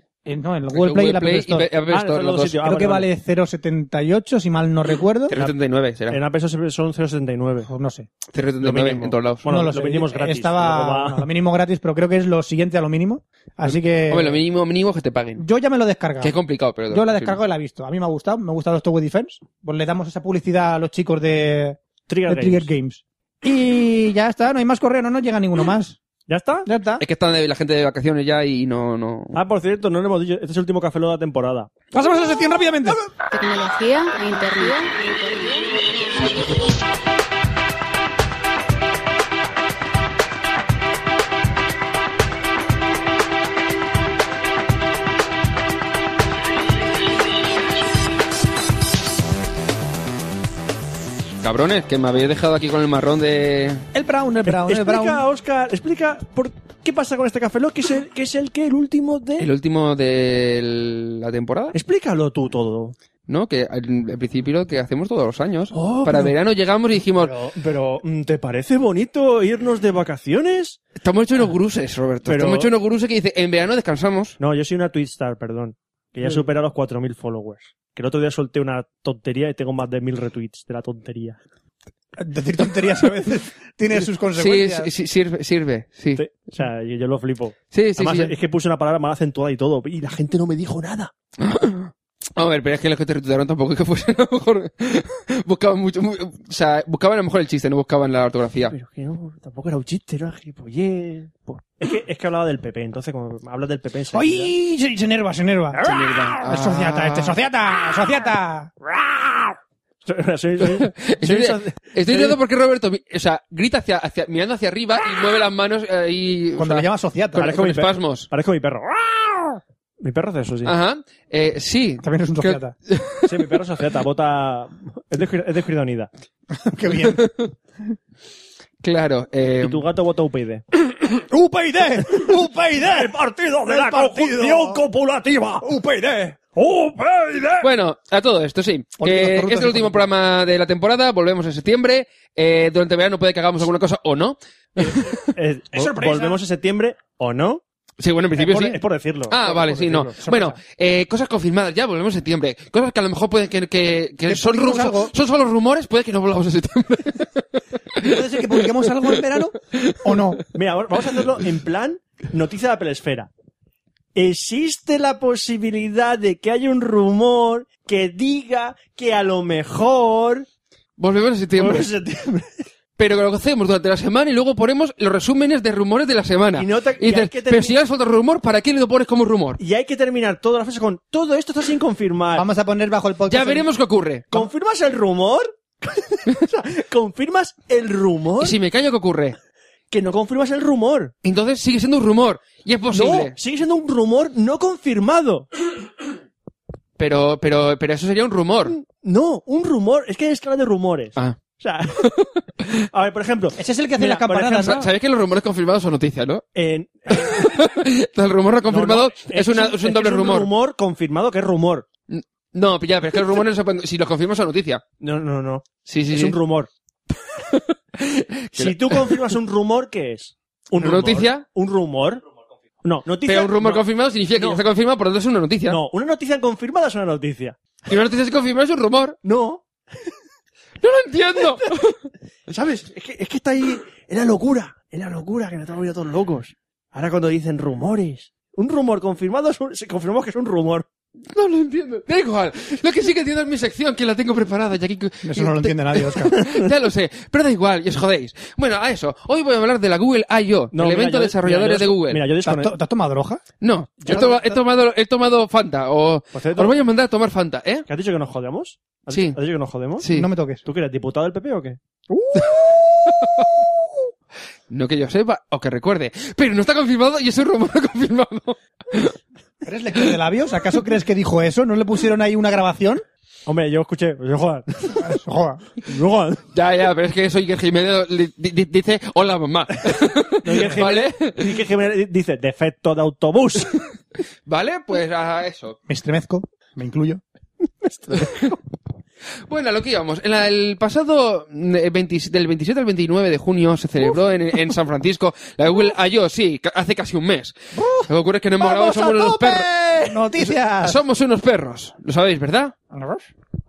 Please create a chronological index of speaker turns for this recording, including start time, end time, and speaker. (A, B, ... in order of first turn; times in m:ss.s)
0:00.2-0:01.7 A
0:00.7-0:02.6 B
0:01.9-0:03.1 C
0:02.6-0:05.3 A
0:05.3-0:06.2 B
0:06.1-0:07.7 C
0:07.7-0:08.1 A
0:08.3-0:09.5 B
0:08.6-0:11.3 C
0:09.4-0:14.4 A
0:14.1-0:15.4 B
0:15.4-0:16.4 A
0:16.2-0:17.4 B
0:16.9-0:26.0 A
0:22.1-0:22.7 C
0:26.3-0:26.7 C
0:26.6-0:27.0 A
0:27.0-0:29.3 B
0:29.3-0:31.7 C
0:31.9-0:33.0 A
0:33.3-0:35.8 D
0:51.4-0:53.8 B
0:53.9-0:55.2 A
0:54.5-0:59.5 C
0:59.4-1:01.8 B
1:01.7-1:03.0 C
1:03.3-1:07.3 B
1:05.7-1:06.3 C
1:07.2-1:10.8 C
1:11.0-1:14.4 B
1:12.3-1:12.7 C
1:14.4-1:21.4 C
1:22.2-1:24.9 A
1:24.4-1:26.2 B
1:26.1-1:31.1 C
1:27.7-1:28.3 B
1:31.4-1:38.7 B
1:38.7-1:44.5 C
1:44.1-1:45.8 A
1:45.8-1:47.4 B
1:46.4-1:49.4 A
1:50.0-1:52.4 C
1:50.6-1:56.8 B
1:56.6-1:57.6 A
1:57.4-2:00.7 C
1:57.4-1:58.3 B
2:00.6-2:03.3 B
2:02.0-2:02.7 A
2:03.2-2:06.1 C
2:06.5-2:07.2 A
2:07.0-2:07.5 B
2:08.8-2:09.8 B
2:09.6-2:10.6 C
2:11.3-2:14.8 A
2:12.8-2:15.7 C
2:15.6-2:16.4 A
2:16.6-2:17.7 C
2:17.6-2:25.2 B
2:19.0-2:20.1 A
2:24.8-2:27.6 C
2:25.7-2:26.4 A
2:28.0-2:40.4 B
2:28.4-2:30.2 C
2:30.2-2:30.6 A
2:34.3-2:35.1 A
2:38.0-2:40.4 A
2:40.6-2:43.3 C
2:44.2-2:50.5 C
2:51.0-2:51.9 B
2:51.6-2:52.6 C
2:53.0-2:59.6 B
2:56.6-2:57.8 C
2:59.6-3:02.5 C
3:02.4-3:03.7 A
3:03.3-3:04.5 B
3:04.3-3:08.6 C
3:08.4-3:09.4 B
3:09.9-3:11.1 C
3:11.2-3:13.3 B
3:12.9-3:15.5 C
3:17.0-3:18.8 B
3:18.7-3:22.1 C
3:22.0-3:22.8 B
3:22.9-3:24.8 C
3:23.6-3:24.9 A
3:24.6-3:26.4 B
3:26.6-3:27.6 C
3:27.1-3:30.5 B
3:28.7-3:31.9 C
3:32.1-3:34.8 B
3:35.0-3:36.7 C
3:35.9-3:36.4 B
3:37.4-3:39.2 B
3:38.5-3:42.2 C
3:40.8-3:41.4 B
3:42.8-3:44.6 C
3:43.2-3:45.8 B
3:45.7-3:47.6 C
3:47.9-3:49.2 B
3:49.2-3:49.6 C
3:50.8-3:52.0 B
3:52.5-4:00.9 C
4:01.3-4:12.2 B
4:05.2-4:06.4 A
4:06.3-4:06.6 C
4:10.7-4:12.7 C
4:12.4-4:13.4 A
4:13.6-4:17.9 B
4:14.1-4:14.6 A
4:16.3-4:16.7 C
4:17.9-4:20.0 C
4:19.1-4:19.4 B
4:20.0-4:20.3 B
4:20.1-4:20.7 A
4:20.6-4:21.8 C
4:22.1-4:23.7 A
4:23.1-4:23.6 B
4:24.7-4:29.1 B
4:29.6-4:33.0 A
4:33.5-4:35.1 C
4:35.0-4:35.7 A
4:35.8-4:36.4 C
4:36.5-4:41.6 B
4:40.4-4:43.8 C
4:40.6-4:40.8 A
4:44.5-4:45.8 B
4:45.9-4:47.2 A
4:47.8-4:48.6 C
4:49.5-5:02.8 B
4:57.8-5:01.0 A
5:02.9-5:03.3 A